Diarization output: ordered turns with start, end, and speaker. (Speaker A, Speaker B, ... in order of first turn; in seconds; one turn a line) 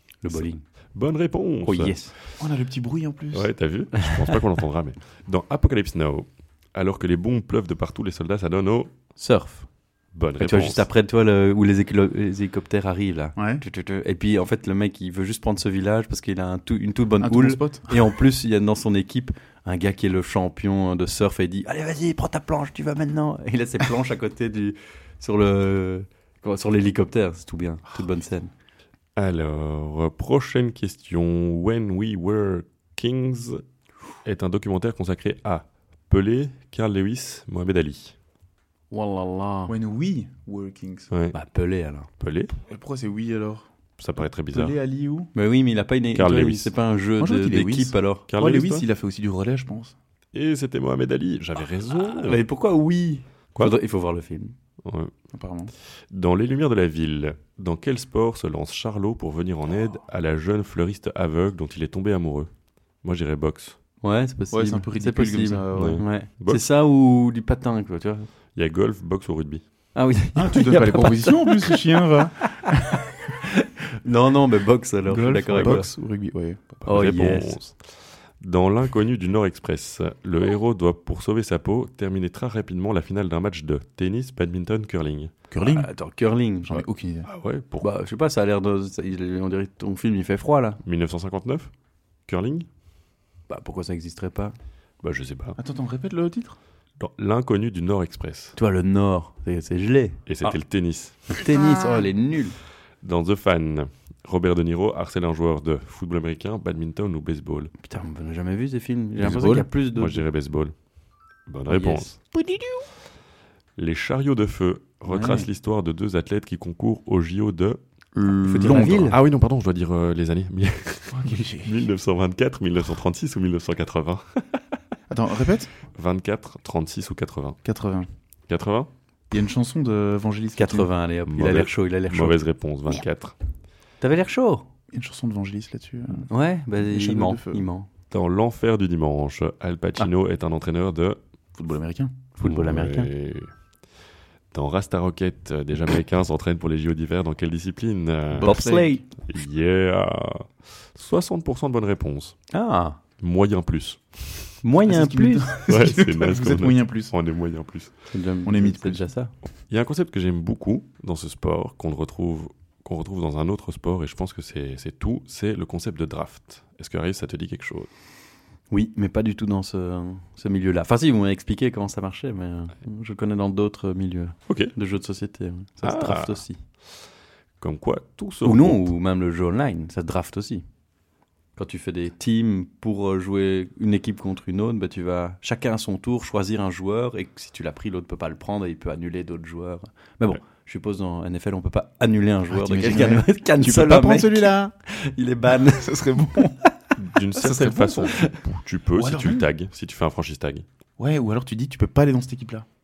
Speaker A: 0.2-0.6
Speaker B: 0.3-2.1
Speaker A: 1.6-2.1
Speaker C: 2.4-3.5
Speaker B: 3.3-8.9
Speaker A: 4.0-4.3
Speaker A: 9.2-9.7
Speaker B: 10.1-10.9
Speaker A: 10.4-28.5
Speaker C: 13.4-13.6
Speaker C: 17.2-18.1
Speaker B: 29.2-33.6
Speaker B: 34.2-38.1
Speaker A: 38.9-39.7
Speaker C: 39.7-41.1
Speaker A: 41.3-42.1
Speaker B: 42.2-42.5
Speaker C: 42.7-43.7
Speaker B: 44.0-44.8
Speaker C: 44.5-45.3
Speaker A: 45.3-48.3
Speaker B: 46.1-46.7
Speaker C: 47.2-50.0
Speaker B: 48.3-48.9
Speaker B: 50.3-52.4
Speaker A: 52.2-54.5
Speaker B: 54.8-55.1
Speaker C: 55.3-55.7
Speaker B: 56.1-62.5
Speaker B: 63.0-63.8
Speaker A: 64.0-68.3
Speaker C: 64.5-66.0
Speaker B: 65.7-66.6
Speaker B: 68.5-69.6
Speaker A: 70.0-75.9
Speaker C: 70.3-73.0
Speaker C: 75.1-76.8
Speaker A: 76.8-77.6
Speaker B: 76.8-85.3
Speaker C: 85.5-85.9
Speaker A: 85.6-86.8
Speaker C: 86.7-87.3
Speaker B: 87.3-87.9
Speaker A: 87.8-90.8
Speaker B: 90.8-91.7
Speaker B: 92.3-92.7
Speaker A: 93.5-94.5
Speaker B: 95.0-95.6
Speaker C: 95.6-96.6
Speaker B: 97.0-98.6
Speaker A: 98.6-100.6
Speaker B: 100.3-101.2
Speaker A: 101.3-102.6
Speaker C: 101.5-102.0
Speaker B: 103.0-107.7
Speaker A: 107.8-110.2
Speaker C: 109.2-109.7
Speaker B: 109.9-110.7
Speaker B: 111.5-112.2
Speaker A: 111.7-112.2
Speaker C: 112.3-112.9
Speaker B: 113.8-117.8
Speaker C: 115.1-115.5
Speaker C: 118.2-119.2
Speaker A: 118.4-119.2
Speaker B: 118.7-124.6
Speaker C: 121.1-121.8
Speaker C: 125.1-125.7
Speaker B: 125.9-127.6
Speaker C: 127.7-128.1
Speaker B: 128.5-128.9
Speaker C: 129.3-130.9
Speaker A: 130.6-132.4
Speaker B: 131.3-133.4
Speaker A: 134.0-134.7
Speaker C: 134.9-137.7
Speaker A: 136.3-137.9
Speaker B: 138.1-141.2
Speaker C: 141.5-142.2
Speaker A: 142.4-143.1
Speaker B: 142.4-143.5
Speaker B: 144.5-148.5
Speaker C: 148.3-149.0
Speaker A: 148.4-149.0
Speaker B: 149.2-152.4
Speaker A: 152.5-153.0
Speaker B: 153.2-154.6
Speaker A: 154.6-155.5
Speaker C: 154.9-157.1
Speaker B: 155.7-157.9
Speaker A: 158.1-159.3
Speaker C: 158.4-159.1
Speaker B: 159.7-167.9
Speaker A: 168.7-176.6
Speaker B: 174.5-174.7
Speaker B: 175.8-176.4
Speaker B: 177.6-178.9
Speaker A: 178.4-180.6
Speaker A: 181.6-196.1
Speaker C: 192.5-194.7
Speaker C: 195.7-196.6
Speaker B: 197.0-200.7
Speaker C: 197.4-198.1
Speaker A: 197.8-198.4
Speaker C: 198.9-199.5
Speaker C: 201.0-202.7